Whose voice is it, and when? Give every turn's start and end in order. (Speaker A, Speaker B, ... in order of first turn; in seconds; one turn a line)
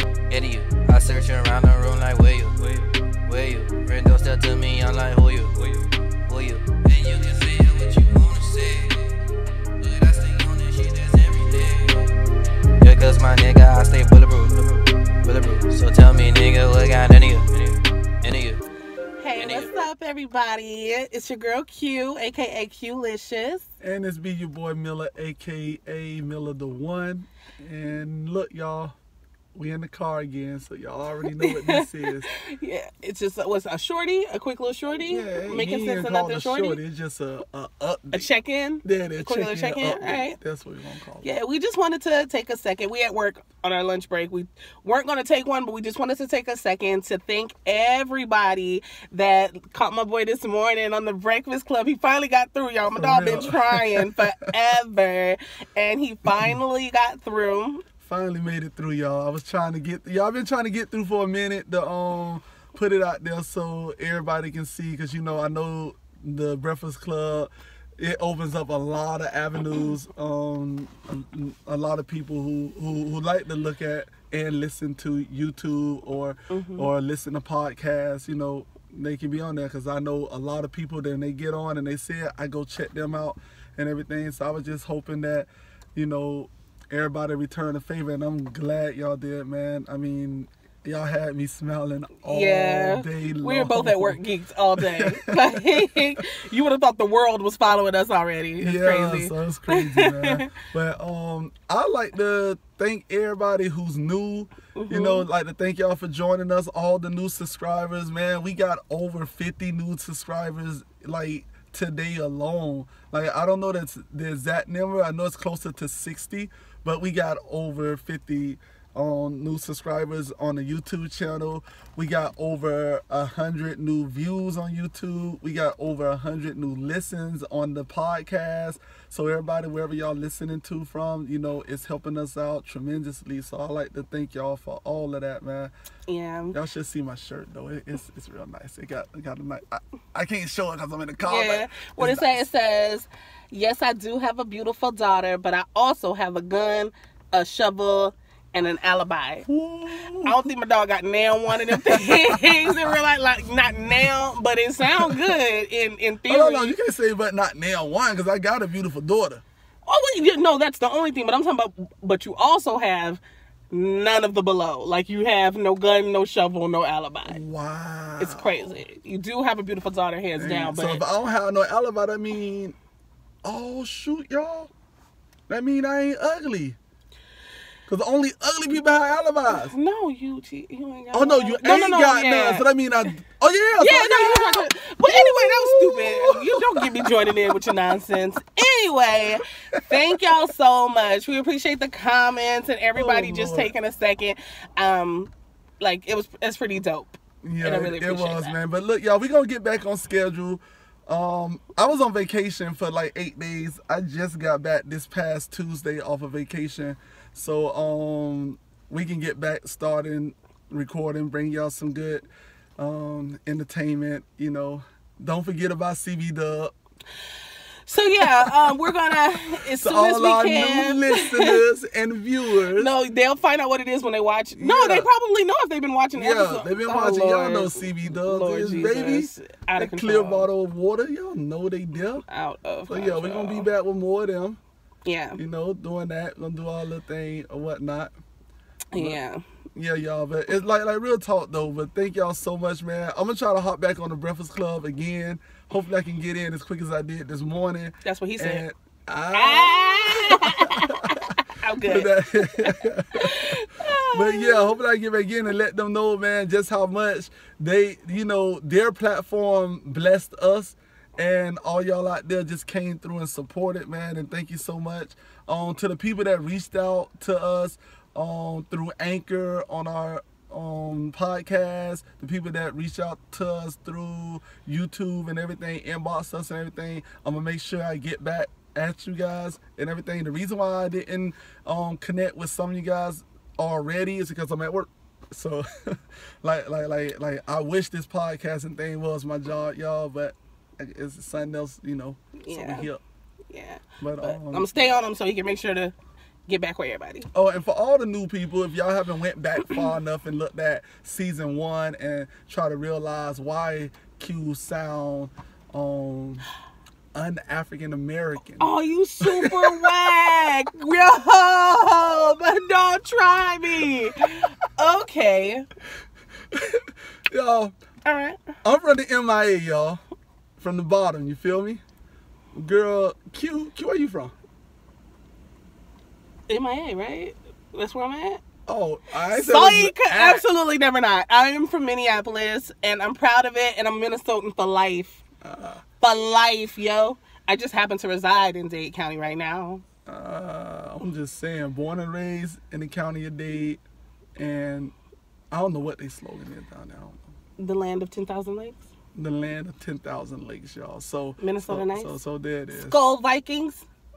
Speaker A: 0.3-2.7
Speaker A: 3.2-5.8
Speaker A: 6.3-9.0
Speaker A: 9.8-12.1
Speaker A: 12.8-18.6
Speaker B: 19.2-23.7
Speaker A: 19.4-19.7
Speaker C: 23.8-28.9
Speaker C: 29.6-32.3
Speaker B: 31.3-36.8
Speaker C: 35.0-38.3
Speaker B: 38.1-40.4
Speaker C: 38.8-41.3
Speaker B: 41.2-57.8
Speaker C: 52.9-54.2
Speaker C: 58.0-94.2
Speaker B: 76.5-76.9
Speaker B: 92.3-100.5
Speaker C: 94.8-96.0
Speaker C: 98.6-135.7
Speaker B: 104.8-105.3
Speaker B: 136.1-136.6
Speaker C: 136.5-142.4
Speaker B: 141.2-149.5
Speaker C: 149.4-150.5
Speaker B: 150.2-156.8
Speaker C: 151.6-152.9
Speaker C: 154.9-155.2
Speaker C: 156.3-159.4
Speaker B: 159.8-167.4
Speaker C: 167.3-168.8
Speaker B: 168.2-171.0
Speaker C: 170.4-172.8
Speaker C: 173.4-174.7
Speaker C: 175.5-176.8
Speaker C: 177.9-179.8
Speaker B: 179.5-182.7
Speaker C: 181.1-187.3
Speaker B: 183.8-198.6
Speaker C: 189.7-190.2
Speaker C: 193.0-193.7
Speaker C: 197.4-212.3
Speaker C: 212.8-216.7
Speaker B: 217.9-221.6
Speaker C: 218.2-218.9
Speaker C: 219.7-222.9
Speaker B: 222.7-230.5
Speaker C: 224.6-225.1
Speaker C: 226.2-232.2
Speaker B: 232.3-233.7
Speaker C: 232.9-234.6
Speaker B: 235.1-235.4
Speaker C: 235.4-238.1
Speaker B: 238.9-239.4
Speaker C: 239.8-293.0
Speaker B: 248.0-248.6
Speaker B: 249.3-254.8
Speaker B: 292.4-292.9
Speaker B: 293.5-295.9
Speaker C: 294.0-294.7
Speaker B: 296.5-297.3
Speaker C: 297.3-306.5
Speaker C: 307.1-308.7
Speaker B: 308.6-315.7
Speaker C: 309.2-309.9
Speaker C: 316.5-317.7
Speaker B: 318.1-318.4
Speaker C: 318.6-320.0
Speaker C: 320.6-321.8
Speaker C: 322.5-324.3
Speaker B: 326.5-328.4
Speaker C: 328.7-330.4
Speaker B: 329.3-335.2
Speaker C: 335.4-335.8
Speaker B: 336.0-339.8
Speaker C: 340.1-343.8
Speaker C: 344.4-344.9
Speaker C: 345.5-347.2
Speaker B: 347.6-348.8
Speaker C: 349.1-353.0
Speaker B: 351.4-352.2
Speaker B: 352.7-353.9